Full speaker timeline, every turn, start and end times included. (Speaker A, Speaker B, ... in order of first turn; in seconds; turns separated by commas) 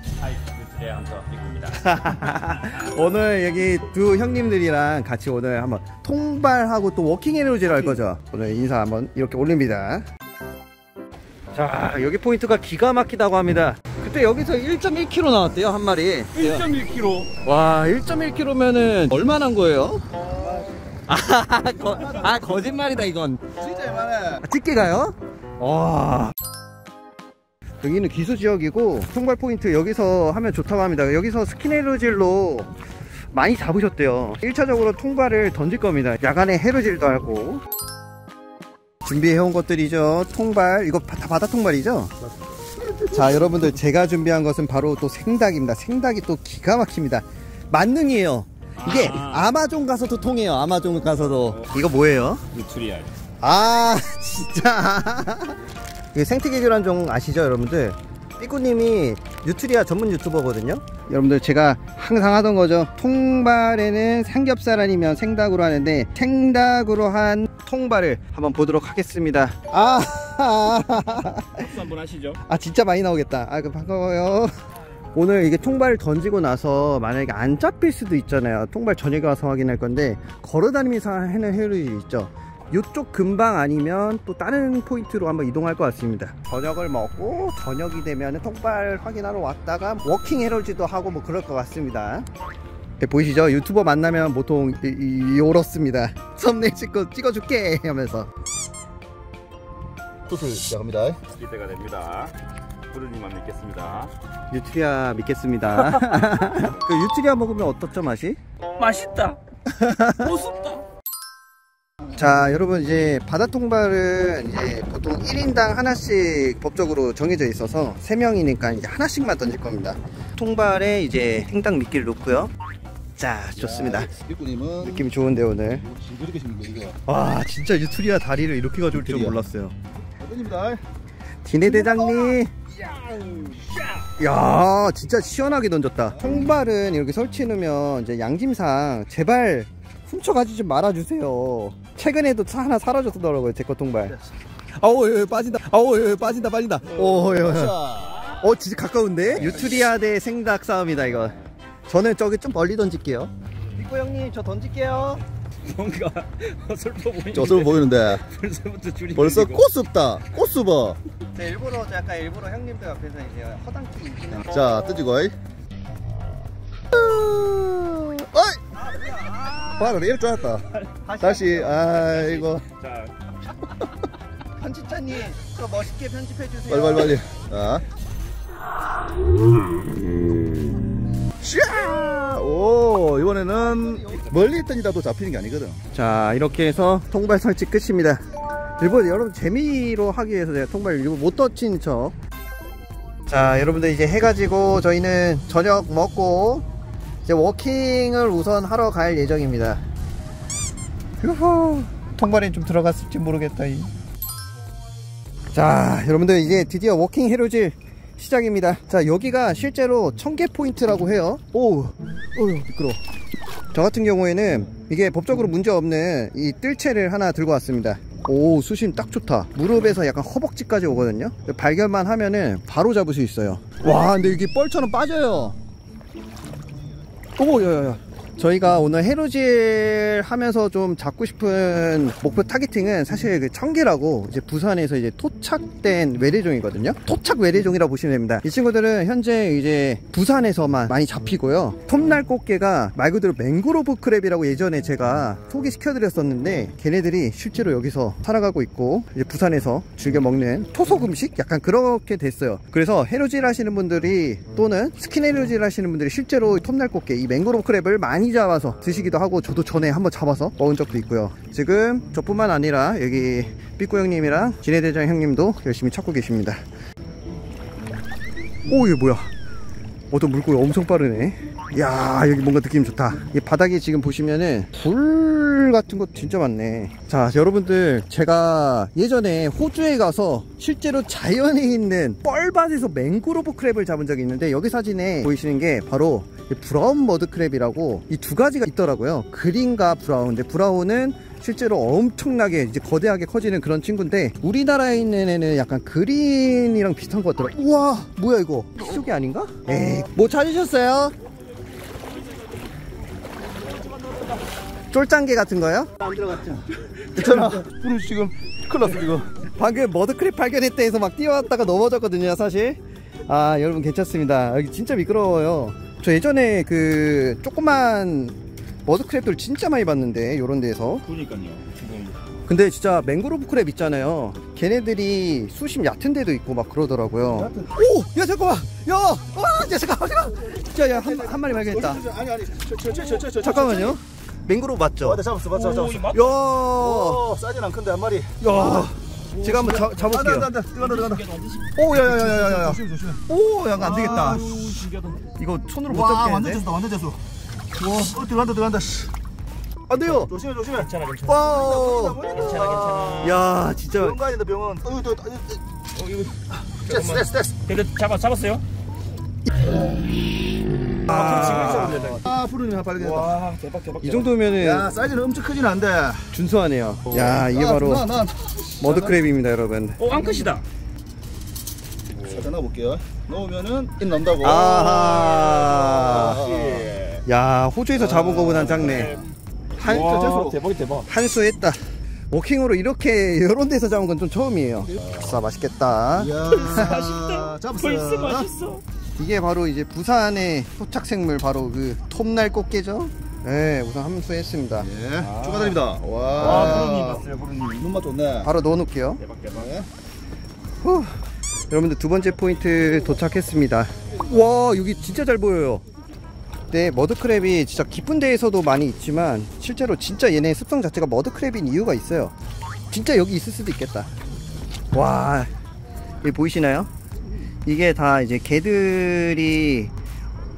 Speaker A: 0.2-1.9, Speaker B: 1.7-10.1, Speaker B: 11.5-16.7, Speaker A: 16.3-17.3, Speaker B: 17.4-20.2, Speaker C: 20.4-20.6, Speaker B: 21.1-23.4, Speaker C: 21.8-22.7, Speaker C: 23.6-24.4, Speaker B: 24.4-26.3, Speaker B: 27.8-32.7, Speaker B: 33.3-37.6, Speaker B: 39.0-42.1, Speaker C: 42.8-43.7, Speaker B: 43.1-52.4, Speaker A: 48.8-49.5, Speaker A: 52.5-53.1, Speaker B: 53.4-55.6, Speaker B: 56.1-71.7, Speaker A: 71.5-72.4, Speaker B: 72.4-74.5, Speaker B: 75.1-92.2, Speaker B: 93.0-98.3, Speaker C: 100.2-101.2, Speaker A: 101.3-102.3, Speaker A: 102.9-104.1, Speaker B: 104.5-108.4, Speaker A: 108.8-109.4, Speaker B: 109.7-110.4, Speaker A: 110.2-110.8, Speaker B: 112.1-122.5, Speaker B: 123.2-124.1, Speaker C: 123.6-125.1, Speaker B: 124.8-125.8, Speaker C: 125.8-127.0, Speaker B: 127.0-129.7, Speaker C: 128.9-129.4, Speaker C: 130.2-130.8, Speaker B: 131.4-132.5, Speaker C: 131.7-132.1, Speaker A: 132.2-134.1, Speaker B: 134.2-144.2, Speaker C: 136.1-136.4, Speaker B: 144.8-147.8, Speaker C: 146.9-148.2, Speaker B: 148.3-151.3, Speaker C: 149.3-149.8, Speaker B: 151.9-155.2, Speaker A: 155.6-159.6, Speaker C: 157.3-158.2, Speaker C: 159.2-161.0, Speaker B: 159.7-160.1, Speaker B: 161.3-164.8, Speaker C: 164.4-165.3, Speaker C: 166.9-168.7, Speaker B: 168.9-170.0, Speaker C: 169.8-170.7, Speaker B: 171.0-172.6, Speaker C: 171.2-171.9, Speaker A: 171.7-173.1, Speaker B: 174.6-177.2, Speaker C: 176.7-177.8, Speaker C: 181.4-185.8, Speaker B: 185.9-188.2, Speaker B: 188.8-192.1, Speaker B: 193.3-196.6, Speaker B: 197.2-199.8, Speaker B: 201.2-203.9, Speaker B: 205.5-213.0, Speaker B: 213.7-225.6, Speaker B: 227.4-266.6, Speaker B: 268.7-269.3, Speaker B: 270.1-301.1, Speaker A: 302.2-302.5, Speaker A: 303.6-304.4, Speaker B: 304.9-306.4, Speaker B: 307.1-307.6, Speaker C: 307.1-309.3, Speaker B: 309.5-321.0, Speaker A: 321.0-322.2, Speaker B: 322.5-332.0, Speaker C: 327.2-327.8, Speaker C: 330.5-334.0, Speaker B: 333.0-335.2, Speaker C: 335.0-336.1, Speaker A: 335.5-336.4, Speaker B: 336.1-337.2, Speaker C: 336.7-338.9, Speaker B: 338.4-340.5, Speaker A: 339.4-340.1, Speaker C: 339.4-341.3, Speaker A: 340.7-341.7, Speaker B: 341.8-344.4, Speaker C: 341.8-343.2, Speaker A: 343.8-345.2, Speaker C: 343.8-344.9, Speaker B: 345.4-346.6, Speaker C: 345.9-347.2, Speaker C: 347.8-349.1, Speaker B: 349.9-350.3, Speaker C: 350.0-350.9, Speaker A: 350.7-353.4, Speaker B: 351.2-352.2, Speaker C: 351.4-353.4, Speaker B: 353.2-354.2, Speaker C: 353.9-355.6, Speaker A: 355.9-358.6, Speaker C: 356.8-357.6, Speaker B: 361.1-362.0, Speaker A: 361.1-362.2, Speaker C: 361.1-363.4, Speaker A: 363.0-364.3, Speaker B: 364.0-364.9, Speaker C: 364.6-366.3, Speaker B: 366.3-368.1, Speaker C: 367.1-369.2, Speaker B: 368.8-370.0, Speaker A: 370.0-370.6, Speaker A: 372.1-372.4, Speaker C: 372.2-375.0, Speaker B: 374.4-376.4, Speaker A: 374.7-377.2, Speaker C: 375.7-376.9, Speaker B: 377.2-379.2, Speaker C: 377.9-379.2, Speaker A: 378.3-381.1, Speaker B: 379.8-380.2, Speaker C: 379.9-380.6, Speaker B: 381.1-386.9, Speaker C: 386.2-388.5, Speaker A: 386.4-388.8, Speaker B: 389.2-394.9, Speaker C: 394.8-398.5, Speaker A: 395.2-395.8, Speaker B: 396.4-396.9, Speaker A: 396.4-397.9, Speaker B: 398.4-399.2, Speaker A: 399.2-399.8, Speaker C: 399.5-399.9, Speaker B: 400.8-401.2, Speaker B: 401.7-405.8, Speaker B: 406.7-412.3, Speaker B: 412.9-414.1, Speaker B: 414.9-415.5, Speaker B: 416.2-416.9, Speaker B: 417.6-419.9